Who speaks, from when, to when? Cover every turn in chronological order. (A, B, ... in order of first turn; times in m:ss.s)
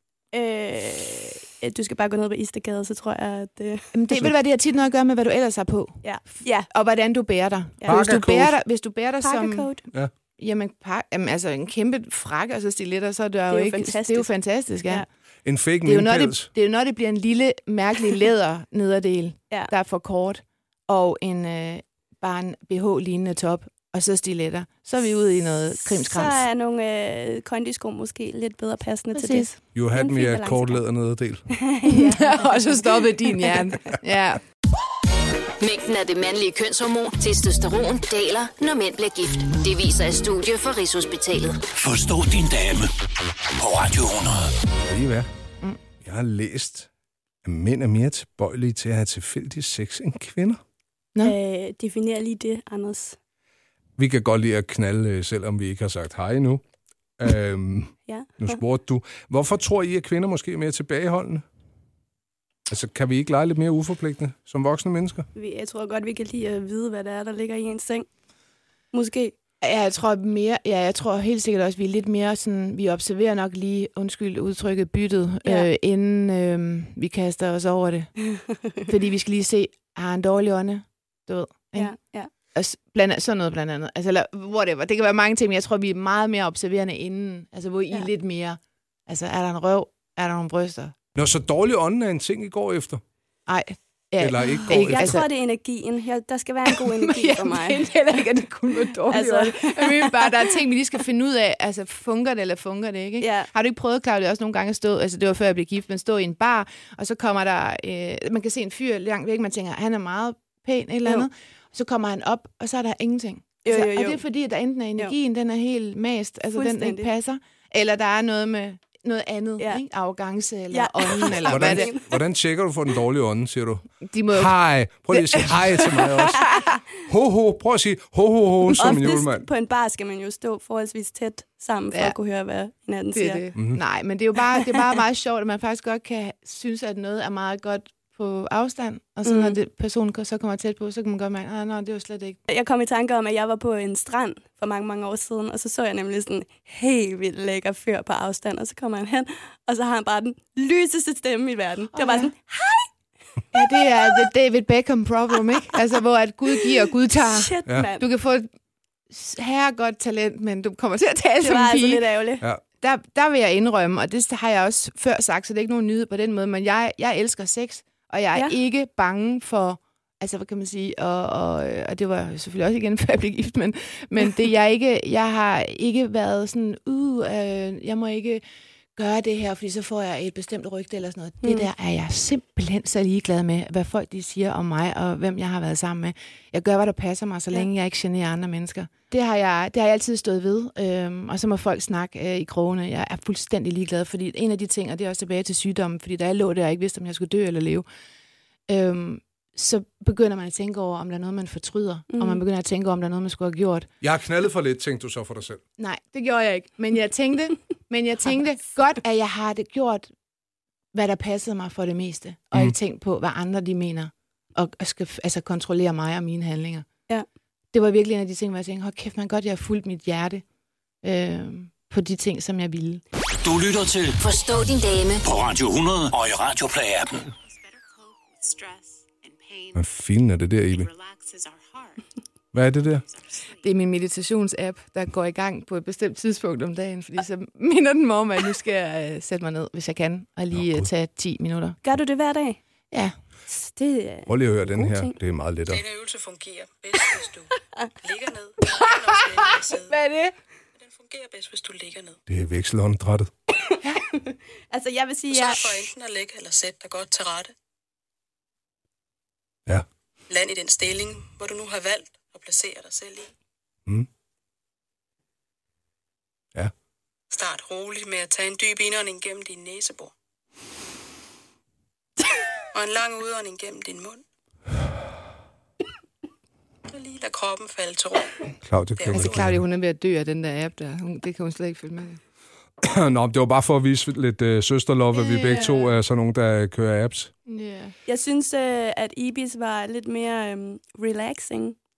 0:00.3-0:03.9 A
0:03.9-0:06.0 B
0:06.0-0:06.7 A
0:06.7-0:09.7 B
0:07.8-0:08.2 A
0:07.9-0:08.6 C
0:09.2-0:09.8 A
0:10.4-0:15.1 B
0:13.5-0:14.3 A
0:15.4-0:16.5 C
0:15.8-0:26.4 B
0:25.8-0:30.8 A
0:29.1-0:29.5 B
0:29.8-0:31.5 C
0:31.5-0:33.6 A
0:31.9-0:34.4 B
0:35.6-0:41.6 D
0:41.8-0:42.9 E
0:43.5-0:44.5 E
0:44.9-0:45.3 C
0:46.0-0:46.9 C
0:47.4-0:50.6 C
0:51.2-0:53.2 A
0:54.0-0:56.6 C
0:57.2-1:01.4 C
0:58.1-0:58.6 A
1:02.7-1:05.3 C
1:05.4-1:08.1 A
1:08.9-1:09.3 A
1:09.6-1:18.1 B
1:15.4-1:15.7 A
1:18.9-1:21.9 B
1:21.8-1:22.3 A
1:22.6-1:31.0 B
1:31.1-1:33.0 C
1:33.5-1:35.3 B
1:34.2-1:35.2 C
1:34.7-1:37.9 A
1:36.7-2:01.9 B
1:39.0-1:40.5 A
1:43.2-1:43.5 A
1:53.6-1:54.2 A
1:56.5-1:57.1 A
2:00.7-2:02.1 A
2:01.5-2:09.5 C
2:04.0-2:04.5 B
2:05.1-2:06.8 B
2:08.7-2:13.4 A
2:13.1-2:22.4 B
2:13.6-2:13.8 C
2:19.2-2:19.6 A
2:22.5-2:32.9 A
2:31.9-2:32.3 B
2:33.5-2:38.5 B
2:34.0-2:34.3 A
2:37.2-2:38.0 A
2:39.1-2:42.0 B
2:41.4-2:42.4 A
2:42.8-2:58.4 B
2:59.0-3:17.8 B
3:01.4-3:01.7 A
3:18.7-3:23.9 B
3:22.1-3:22.4 A
3:24.0-3:25.6 C
3:25.8-3:30.1 B
3:30.9-3:36.9 B
3:37.7-3:40.4 B
3:41.0-3:43.0 B
3:43.4-3:44.2 E
3:44.2-3:45.2 D
3:45.2-3:47.3 E
3:48.4-3:48.8 B
3:49.7-3:50.9 C
3:52.5-3:53.1 C
3:53.6-4:01.8 B
4:00.5-4:00.9 C
4:01.8-4:02.6 A
4:03.5-4:05.1 A
4:04.3-4:05.8 C
4:05.7-4:10.0 F
4:08.7-4:10.3 B
4:10.8-4:12.2 F
4:12.3-4:13.3 C
4:14.1-4:15.9 A
4:15.3-4:17.5 F
4:20.3-4:23.3 F
4:27.3-4:30.1 F
4:32.7-4:34.2 F
4:36.9-4:39.4 F
4:38.6-4:39.6 C
4:39.1-4:42.2 B
4:42.8-4:47.3 C
4:45.2-4:45.7 B
4:47.5-4:47.9 B
4:48.1-4:51.8 A